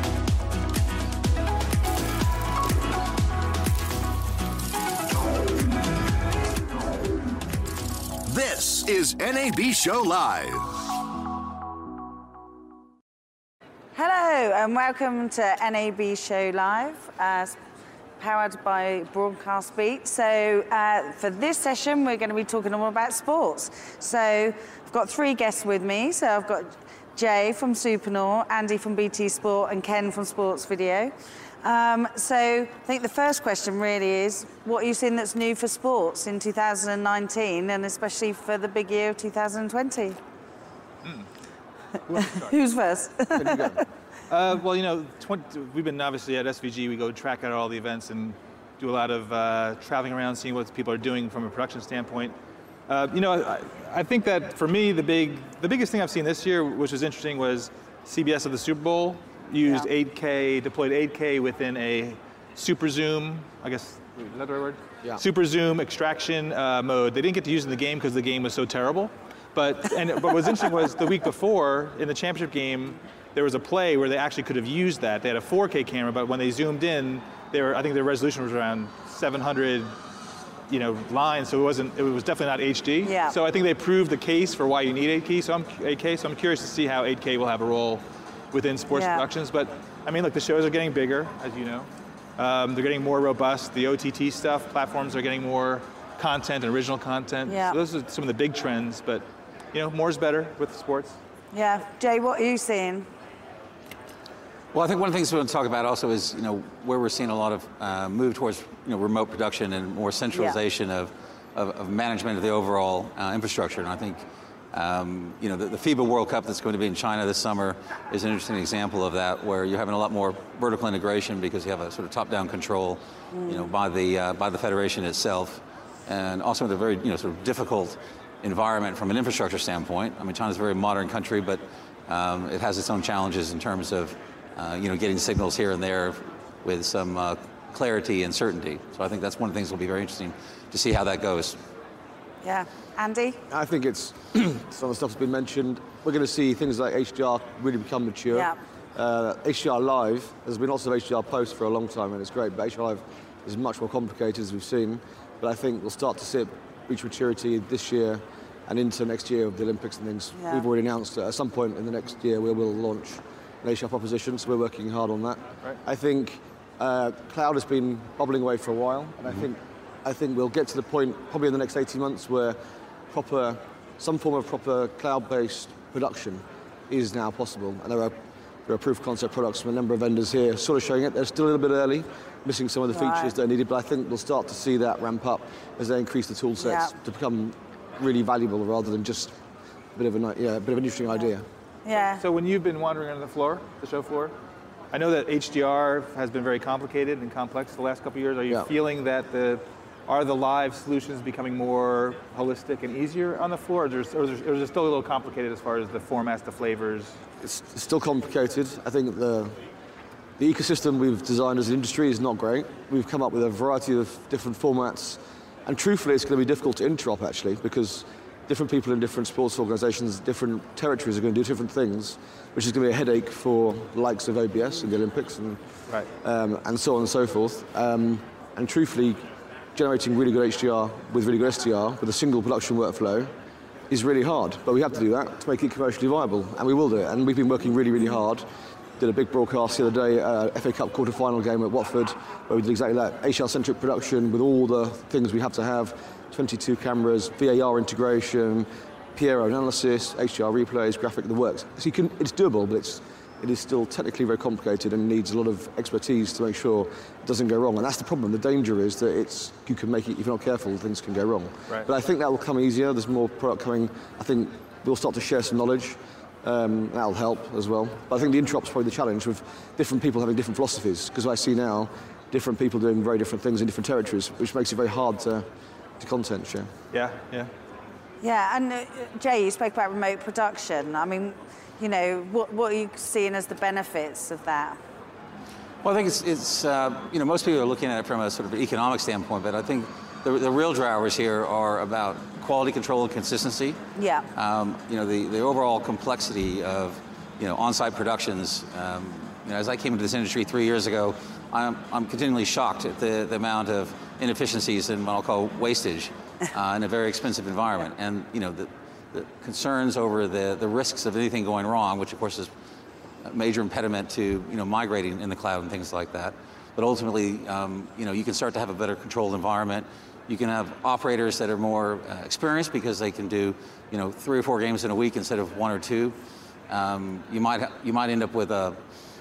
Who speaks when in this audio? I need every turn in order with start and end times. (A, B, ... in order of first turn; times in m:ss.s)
0:08.2-0:10.8 A
0:13.9-0:17.6 B
0:18.2-0:40.2 B
0:42.1-0:42.6 C
0:42.1-0:43.8 B
0:43.3-0:43.8 D
0:44.3-0:52.3 C
0:52.9-1:19.9 C
0:59.6-0:59.9 B
1:20.7-1:41.2 C
1:23.0-1:23.4 B
1:28.9-1:29.2 B
1:37.5-1:37.8 B
1:41.5-1:43.1 B
1:44.7-1:54.2 E
1:50.3-1:50.6 B
1:54.7-2:21.6 E
2:03.3-2:03.7 B
2:22.4-2:23.4 B
2:23.5-2:52.6 D
2:28.3-2:28.6 B
2:40.3-2:40.7 B
2:53.1-2:58.1 D
2:58.7-3:09.3 D
3:02.9-3:03.3 B
3:06.6-3:06.9 B
3:10.0-3:11.4 D
3:11.8-3:12.2 B
3:12.0-3:14.3 C
3:14.9-3:27.2 C
3:27.4-3:29.6 D
3:30.4-3:45.6 D
3:46.2-3:49.2 D
3:49.7-3:53.3 D
3:53.9-3:58.4 D
3:59.0-4:35.4 D
4:36.0-4:36.7 D
4:36.9-4:37.5 C
4:38.2-4:44.8 B
4:45.8-4:53.8 E
4:54.0-4:54.3 B
4:54.3-5:12.5 E
5:13.2-5:26.2 E
5:26.7-5:28.8 E